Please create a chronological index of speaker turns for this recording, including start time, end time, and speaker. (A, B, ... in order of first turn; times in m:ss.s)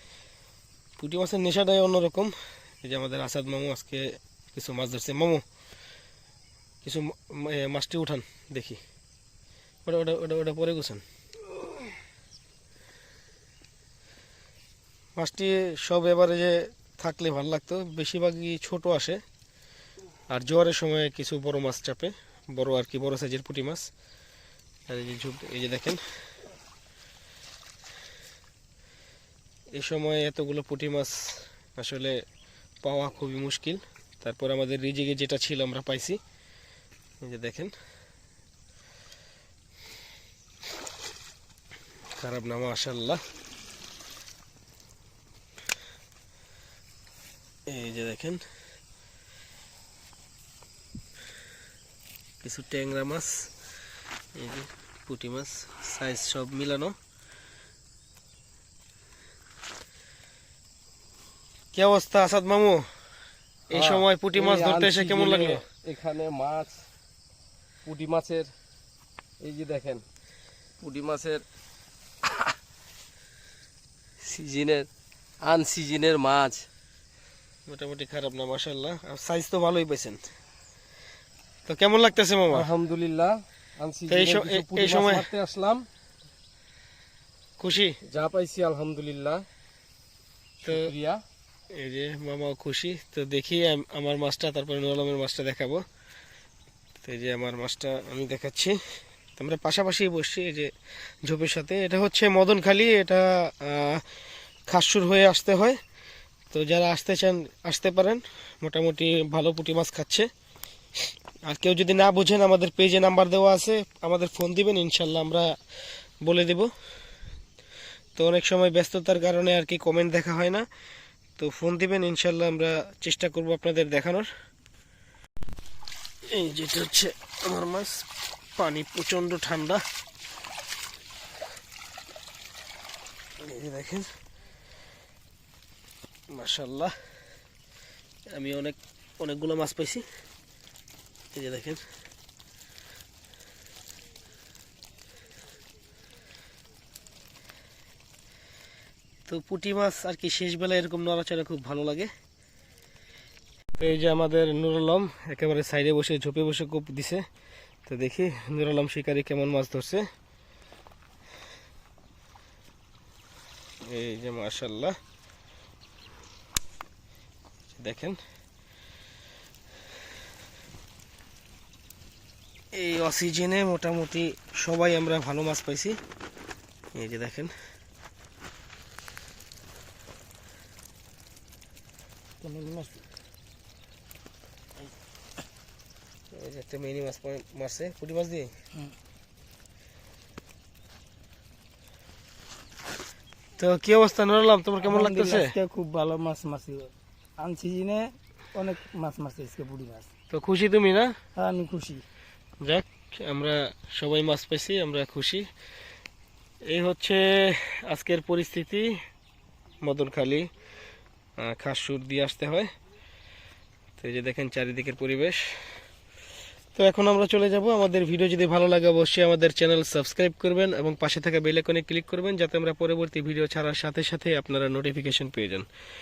0:01.0-0:05.4 A
0:06.8-0:08.8 A
0:09.8-0:11.0 A
0:15.2-0:19.2 A
0:20.3-0:23.9 A
0:24.9-0:26.0 A
0:29.7-0:32.2 A
0:32.8-0:36.2 A
0:37.2-0:37.7 A
0:42.2-0:43.2 A
0:47.7-0:48.4 A
0:52.4-0:53.6 A
0:54.3-0:57.0 A
1:01.7-1:02.9 A
1:03.7-1:05.7 A
1:03.7-1:06.9 B
1:07.8-1:08.5 B
1:09.4-1:10.0 B
1:10.8-1:11.4 B
1:14.2-1:14.9 B
1:15.4-1:16.7 B
1:17.7-1:20.3 A
1:21.7-1:22.7 A
1:22.5-1:25.9 B
1:24.1-1:25.3 A
1:27.6-1:28.0 A
1:28.0-1:29.4 B
1:30.6-1:31.2 B
1:30.7-1:30.9 A
1:31.7-1:35.8 A
1:37.0-1:44.0 A
1:44.7-1:45.8 A
1:46.5-1:50.3 A
1:51.4-1:55.5 A
1:56.2-1:56.7 A
1:58.2-2:00.7 A
2:01.4-2:04.3 A
2:06.3-2:09.8 A
2:13.4-2:14.1 A
2:16.3-2:16.9 A
2:18.3-2:20.0 A
2:21.3-2:21.8 A
2:29.3-2:32.1 A
2:33.8-2:37.2 A
2:37.8-2:40.1 A
2:43.8-2:45.0 A
2:47.7-2:48.2 A
2:52.7-2:56.0 A
2:56.9-2:57.5 A
3:02.4-3:03.0 C
3:06.3-3:08.5 A
3:13.6-3:15.6 A
3:14.8-3:20.1 C
3:20.3-3:21.1 A
3:21.4-3:22.0 C
3:22.6-3:25.4 A
3:26.7-3:28.9 A
3:29.8-3:30.5 A
3:31.4-3:32.7 A
3:34.0-3:35.6 A
3:36.8-3:45.7 A